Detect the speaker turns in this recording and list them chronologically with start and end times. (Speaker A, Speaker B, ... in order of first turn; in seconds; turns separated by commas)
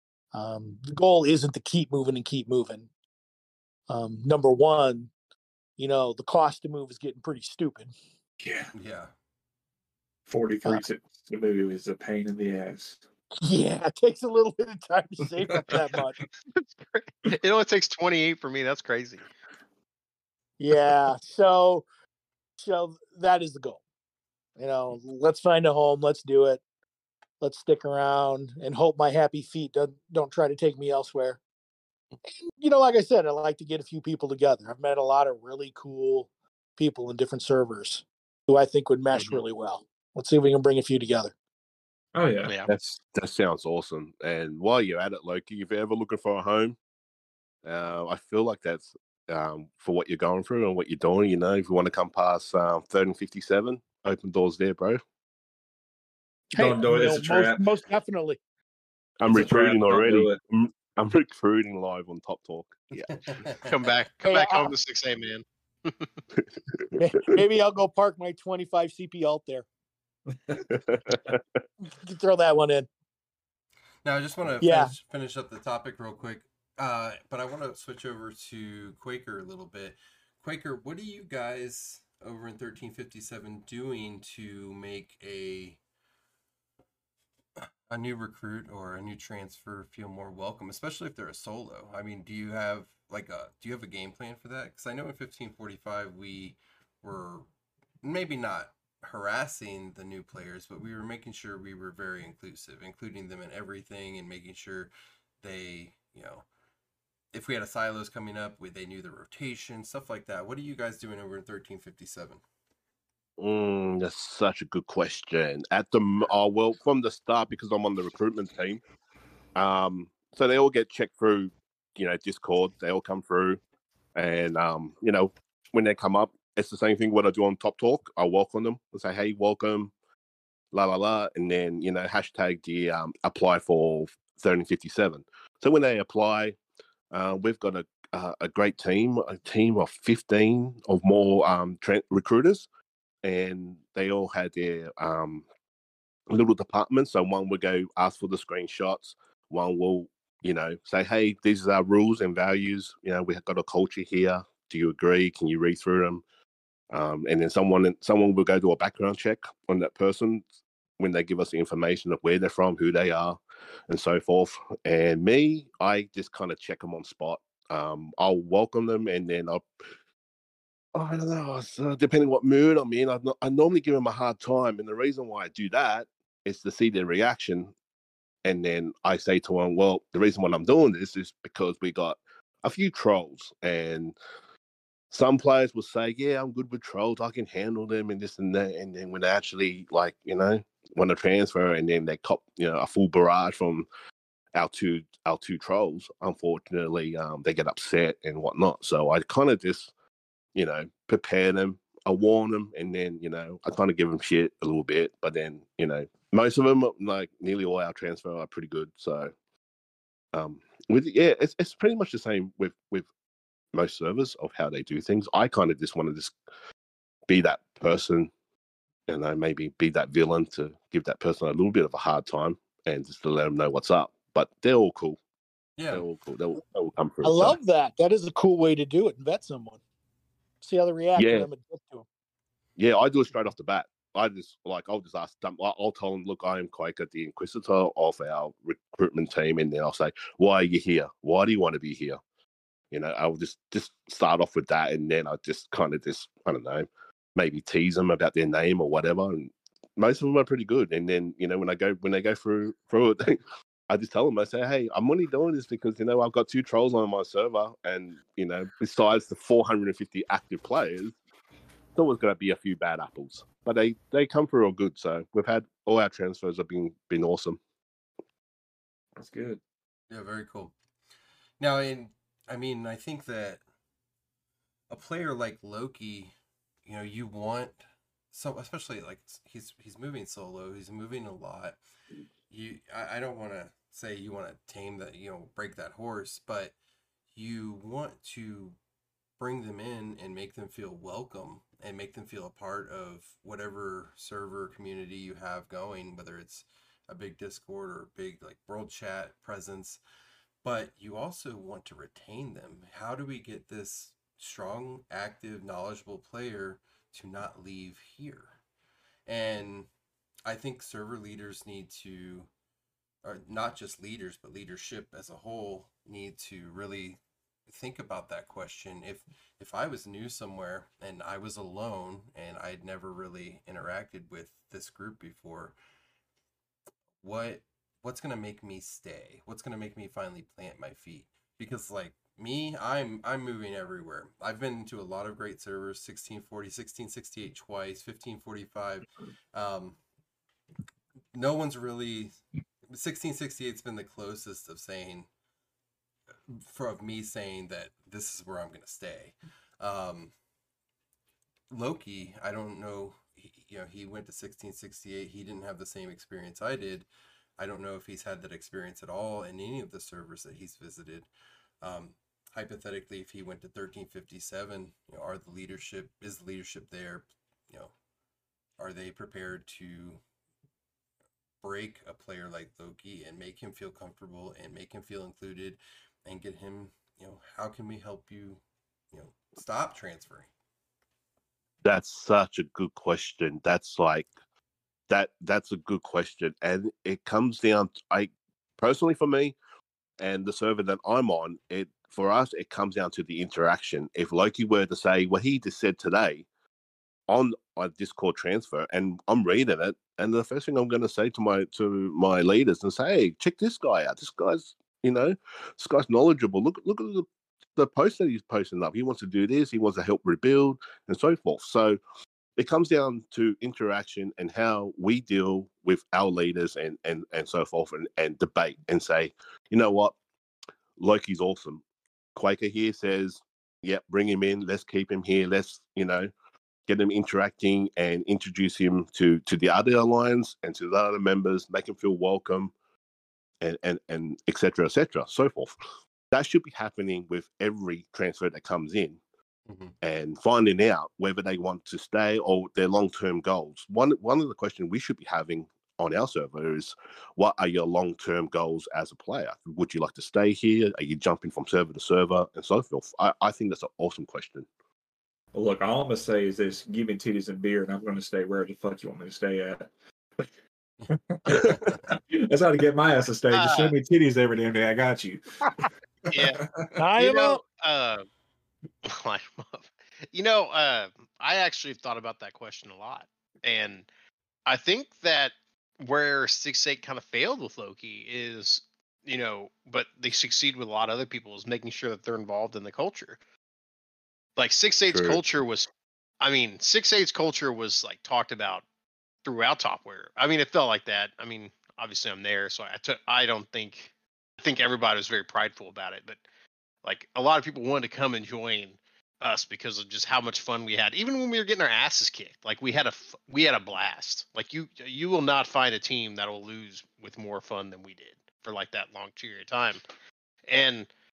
Speaker A: 0.3-2.9, Speaker A: 3.9-5.1, Speaker A: 5.8-7.9, Speaker B: 8.4-8.7, Speaker C: 8.7-9.1, Speaker B: 10.3-13.0, Speaker A: 13.4-16.2, Speaker D: 16.6-19.2, Speaker A: 20.6-21.9, Speaker A: 22.6-23.8, Speaker A: 24.6-26.6, Speaker A: 27.4-31.4, Speaker A: 32.3-41.3, Speaker D: 39.1-39.4, Speaker B: 42.1-42.5, Speaker D: 42.4-42.7, Speaker E: 42.7-46.8, Speaker E: 47.6-55.0, Speaker B: 56.5-57.6, Speaker A: 56.5-58.4, Speaker E: 59.2-63.3, Speaker B: 59.3-60.4, Speaker C: 63.1-63.6, Speaker D: 63.7-66.2, Speaker A: 64.2-64.7, Speaker A: 67.0-69.7, Speaker E: 70.7-71.6, Speaker A: 71.8-72.9, Speaker C: 74.0-85.8, Speaker A: 74.6-74.9, Speaker C: 87.9-97.5, Speaker C: 98.0-106.4, Speaker C: 107.3-112.4, Speaker E: 113.4-118.8, Speaker E: 119.5-123.6, Speaker E: 124.1-129.9, Speaker E: 130.7-136.6, Speaker E: 137.1-142.7, Speaker E: 143.2-145.5, Speaker E: 146.3-156.2, Speaker E: 156.9-160.5, Speaker E: 161.0-169.7, Speaker E: 170.9-177.7, Speaker E: 178.4-184.1, Speaker E: 185.1-193.9, Speaker E: 194.5-199.9, Speaker E: 200.5-209.3, Speaker E: 210.3-213.1, Speaker E: 213.7-216.3, Speaker E: 217.3-218.3, Speaker E: 219.1-225.2, Speaker C: 225.8-226.0, Speaker E: 225.9-227.6, Speaker A: 227.2-229.8, Speaker A: 230.6-232.1, Speaker E: 231.2-231.5, Speaker E: 232.8-242.2, Speaker E: 242.9-261.1, Speaker E: 261.9-267.6, Speaker B: 269.2-269.6, Speaker C: 270.1-270.7, Speaker C: 271.6-273.6, Speaker C: 274.9-276.3, Speaker C: 276.8-277.8, Speaker C: 278.3-281.8, Speaker C: 282.5-286.7, Speaker C: 287.3-288.8, Speaker C: 289.4-300.0, Speaker C: 300.6-308.6, Speaker C: 309.2-309.9, Speaker C: 310.4-312.5, Speaker C: 313.2-325.7, Speaker C: 327.2-340.0, Speaker C: 341.3-342.3, Speaker C: 342.9-345.3, Speaker C: 346.5-350.3, Speaker C: 351.7-357.1, Speaker C: 357.6-361.3, Speaker C: 361.8-367.9, Speaker C: 368.8-370.2, Speaker C: 371.6-380.5, Speaker E: 381.8-384.3, Speaker E: 385.1-389.6, Speaker E: 390.2-396.4, Speaker E: 397.3-407.2, Speaker E: 407.8-412.0, Speaker E: 412.6-420.2, Speaker E: 421.0-421.8, Speaker E: 422.3-426.3, Speaker E: 426.9-432.7, Speaker E: 433.6-435.7, Speaker E: 436.3-439.2, Speaker C: 439.7-439.9, Speaker E: 440.0-454.7, Speaker B: 455.5-459.9, Speaker C: 461.0-462.0, Speaker B: 461.1-466.8, Speaker D: 463.5-463.9, Speaker D: 466.3-466.6, Speaker A: 467.0-467.6, Speaker D: 467.2-468.2, Speaker D: 469.0-474.1, Speaker D: 474.6-483.4, Speaker D: 484.6-485.9, Speaker E: 485.1-485.4, Speaker D: 486.4-488.8, Speaker D: 489.4-496.4, Speaker D: 497.0-510.0, Speaker D: 510.7-511.1